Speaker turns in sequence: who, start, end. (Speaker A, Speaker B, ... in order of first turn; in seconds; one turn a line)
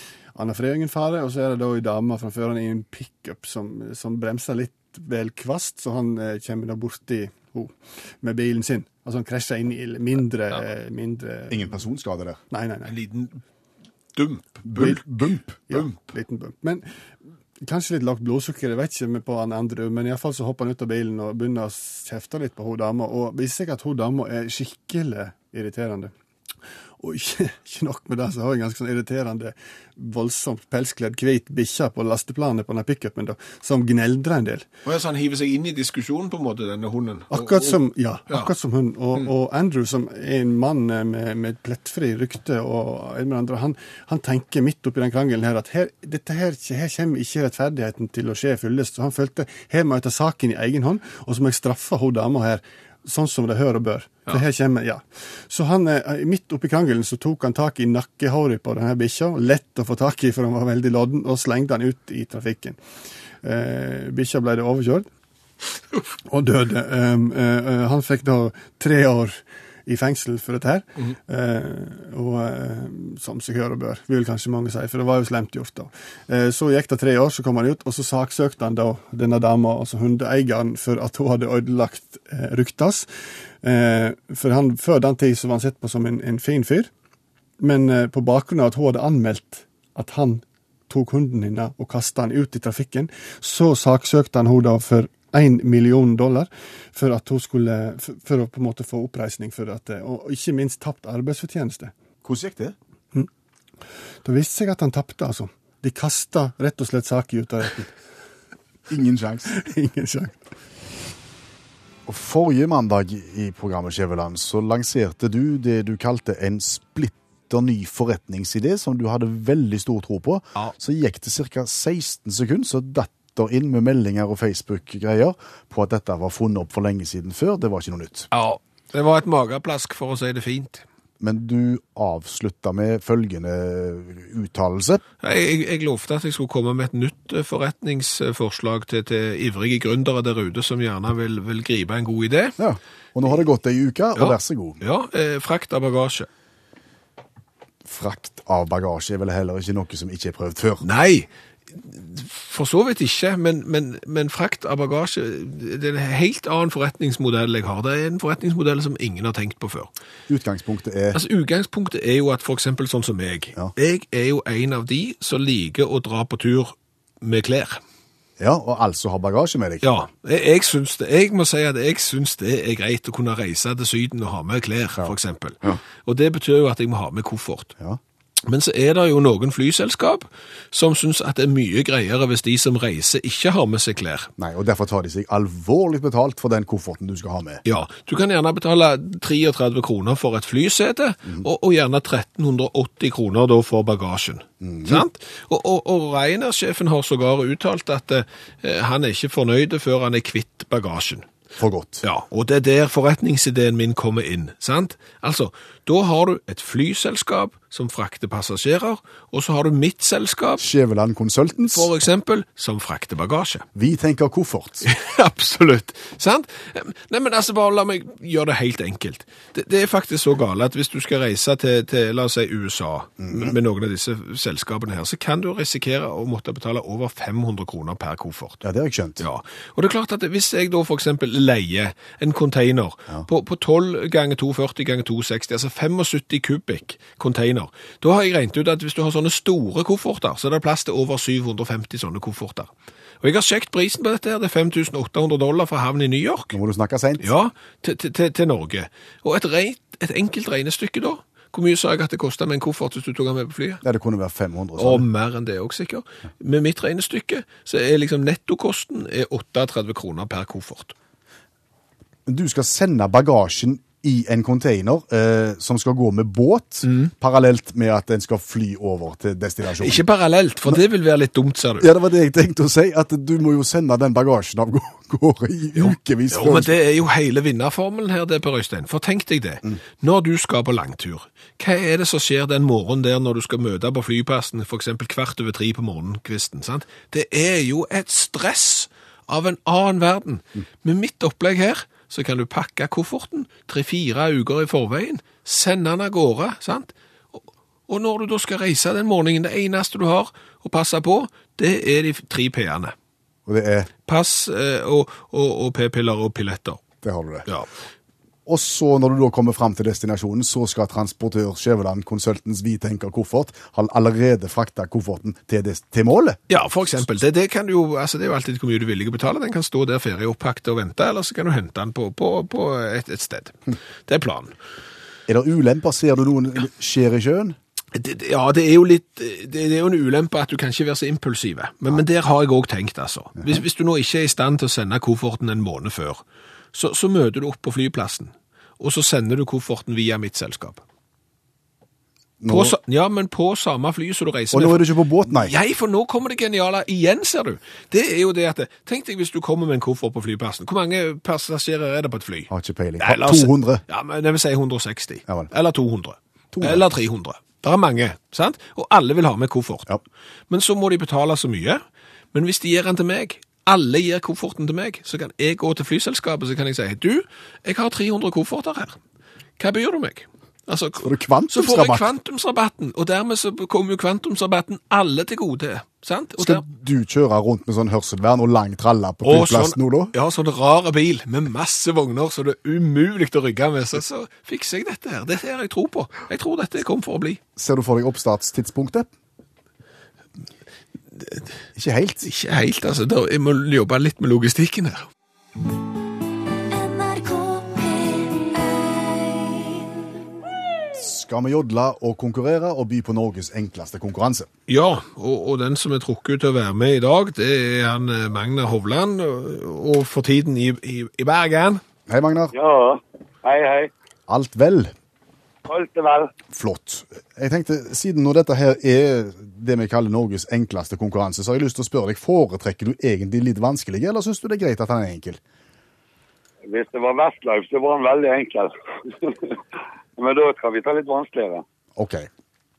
Speaker A: 0.3-11.7
Speaker B: 11.5-12.4
Speaker A: 12.5-12.9
Speaker C: 12.8-13.4
Speaker C: 14.2-15.1
Speaker B: 14.7-15.6
Speaker A: 15.7-16.9
Speaker C: 15.7-16.0
Speaker A: 17.6-26.1
Speaker A: 27.0-34.7
Speaker C: 34.9-38.5
Speaker A: 37.3-62.8
Speaker A: 63.4-65.1
Speaker A: 66.3-83.1
Speaker A: 83.6-86.9
Speaker A: 87.6-101.9
Speaker B: 102.2-102.8
Speaker A: 104.2-107.9
Speaker B: 108.9-109.5
Speaker A: 109.5-110.4
Speaker B: 112.1-128.3
Speaker C: 128.3-130.8
Speaker B: 131.2-135.0
Speaker C: 135.2-142.6
Speaker B: 142.6-144.8
Speaker C: 144.2-146.3
Speaker B: 147.8-150.8
Speaker C: 150.8-159.9
Speaker B: 160.3-161.2
Speaker C: 161.1-167.8
Speaker B: 168.4-169.9
Speaker C: 169.8-177.7
Speaker B: 175.0-175.8
Speaker C: 178.5-184.3
Speaker B: 184.4-187.6
Speaker C: 187.7-201.3
Speaker B: 194.6-195.1
Speaker B: 201.6-202.0
Speaker C: 202.0-210.7
Speaker B: 210.6-211.9
Speaker C: 211.7-213.7
Speaker B: 213.8-214.9
Speaker C: 214.8-228.6
Speaker B: 223.2-223.6
Speaker B: 228.6-229.2
Speaker C: 229.2-246.6
Speaker B: 246.5-247.3
Speaker C: 247.2-253.8
Speaker B: 253.8-255.1
Speaker C: 254.8-260.9
Speaker B: 262.3-270.0
Speaker C: 266.8-267.1
Speaker C: 269.8-271.9
Speaker B: 271.8-276.7
Speaker C: 275.8-302.9
Speaker B: 303.5-303.9
Speaker C: 304.1-306.8
Speaker B: 307.0-307.5
Speaker B: 308.5-316.4
Speaker C: 316.5-324.5
Speaker B: 325.3-327.6
Speaker C: 327.9-336.2
Speaker C: 336.7-340.8
Speaker B: 342.4-342.8
Speaker C: 342.5-359.9
Speaker B: 344.5-345.5
Speaker B: 352.5-353.8
Speaker B: 356.5-356.9
Speaker C: 360.5-369.0
Speaker C: 369.6-376.6
Speaker B: 371.0-372.1
Speaker B: 376.4-380.1
Speaker C: 379.2-387.4
Speaker B: 387.6-389.1
Speaker B: 391.8-392.3
Speaker C: 392.2-395.1
Speaker D: 396.7-399.6
Speaker B: 400.9-404.5
Speaker C: 404.7-411.8
Speaker B: 412.1-412.5
Speaker E: 412.5-413.9
Speaker B: 414.3-414.9
Speaker E: 415.7-416.3
Speaker B: 416.5-425.4
Speaker E: 426.7-429.6
Speaker E: 430.2-431.6
Speaker B: 432.0-432.3